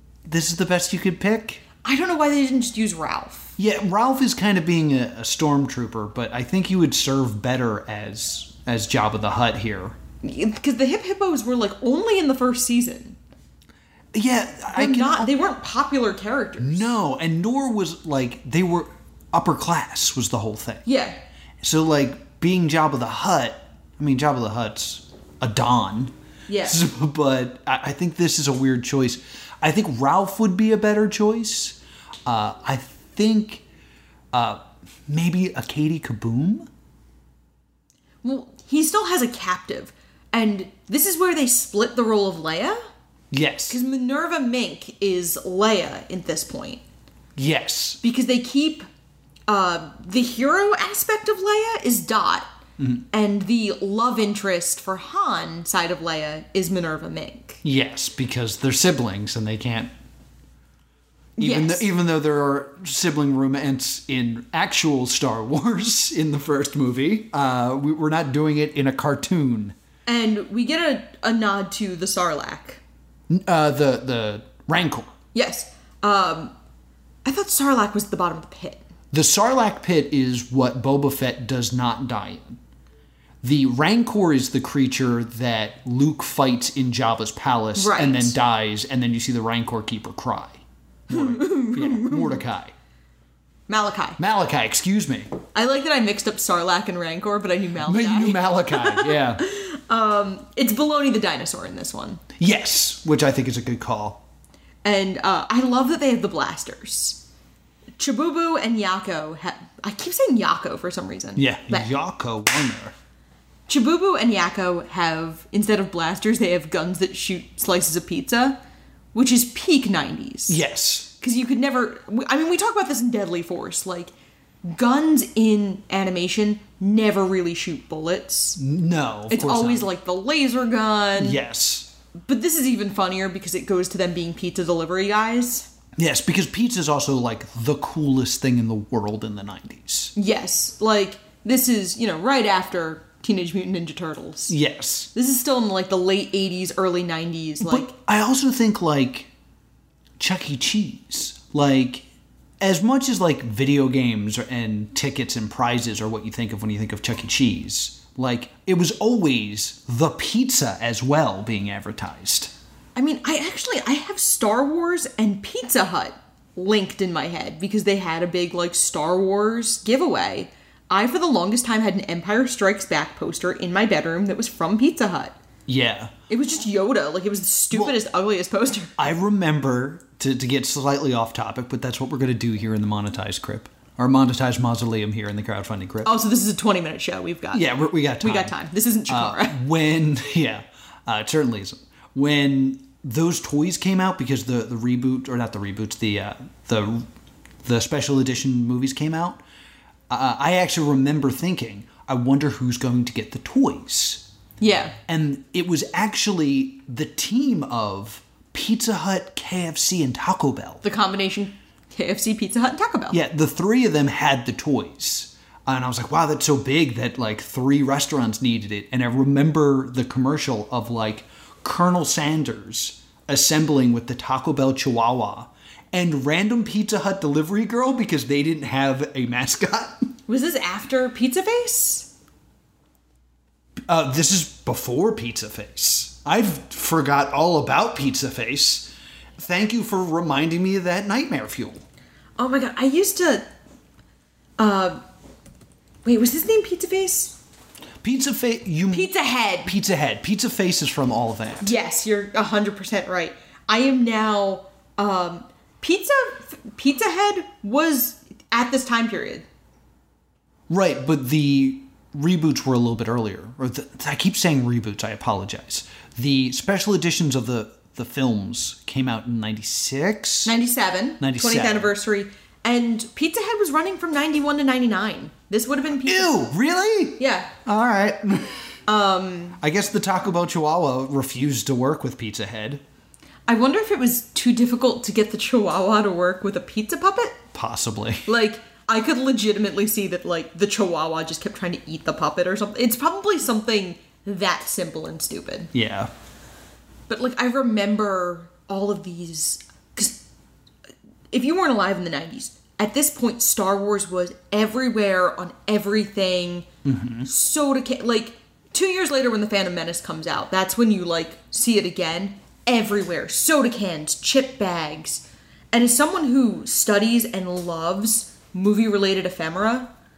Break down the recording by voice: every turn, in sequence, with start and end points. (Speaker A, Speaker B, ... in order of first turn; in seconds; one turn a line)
Speaker A: 0.2-1.6
Speaker B: 1.8-3.5
Speaker A: 3.6-10.0
Speaker B: 10.2-13.2
Speaker A: 14.1-15.3
Speaker B: 14.7-16.9
Speaker A: 16.6-20.9
Speaker B: 20.9-21.2
Speaker A: 21.6-33.6
Speaker B: 26.5-26.8
Speaker A: 34.3-36.7
Speaker B: 38.2-42.8
Speaker A: 43.3-43.8
Speaker B: 43.7-46.8
Speaker A: 47.4-48.0
Speaker B: 48.0-48.9
Speaker B: 49.5-52.5
Speaker A: 52.8-53.0
Speaker B: 53.1-57.6
Speaker A: 57.6-59.9
Speaker A: 61.4-69.8
Speaker B: 61.4-61.9
Speaker B: 70.0-72.8
Speaker A: 73.3-75.1
Speaker B: 75.3-76.5
Speaker B: 77.2-78.8
Speaker A: 79.1-82.6
Speaker A: 83.4-92.7
Speaker B: 87.8-88.3
Speaker B: 91.1-92.4
Speaker B: 93.7-94.2
Speaker A: 94.2-95.3
Speaker B: 95.5-102.2
Speaker A: 97.8-99.4
Speaker A: 102.4-104.2
Speaker B: 104.8-107.2
Speaker B: 108.0-111.9
Speaker A: 111.3-112.9
Speaker B: 113.7-118.6
Speaker B: 119.1-120.6
Speaker A: 120.5-121.1
Speaker B: 121.2-124.1
Speaker B: 124.6-128.6
Speaker A: 128.6-129.9
Speaker B: 129.3-131.4
Speaker A: 131.2-131.9
Speaker B: 132.2-135.7
Speaker A: 136.0-140.1
Speaker B: 140.2-144.5
Speaker A: 144.5-145.1
Speaker B: 145.1-147.9
Speaker A: 147.6-149.3
Speaker A: 150.2-152.0
Speaker A: 152.6-162.5
Speaker B: 162.9-175.4
Speaker A: 175.7-176.1
Speaker B: 176.3-178.9
Speaker A: 177.7-177.9
Speaker A: 179.0-186.1
Speaker B: 186.0-187.7
Speaker A: 187.5-188.5
Speaker B: 188.2-189.6
Speaker A: 189.1-197.1
Speaker A: 197.6-199.4
Speaker A: 200.1-204.3
Speaker B: 204.6-205.0
Speaker A: 205.1-210.8
Speaker B: 210.8-213.2
Speaker A: 213.1-230.1
Speaker B: 230.3-232.1
Speaker A: 233.9-241.8
Speaker B: 242.4-243.4
Speaker B: 244.6-245.0
Speaker B: 246.0-247.4
Speaker A: 248.0-249.1
Speaker B: 248.9-249.7
Speaker A: 249.6-251.7
Speaker B: 251.6-259.4
Speaker A: 260.7-270.5
Speaker B: 270.4-276.4
Speaker A: 271.2-271.9
Speaker A: 276.0-278.6
Speaker B: 277.2-277.5
Speaker B: 278.9-279.6
Speaker A: 279.6-282.8
Speaker B: 283.5-287.4
Speaker A: 287.5-288.3
Speaker B: 288.2-295.7
Speaker A: 295.7-296.1
Speaker B: 297.1-300.2
Speaker B: 301.3-306.7
Speaker A: 306.8-307.3
Speaker B: 307.2-319.9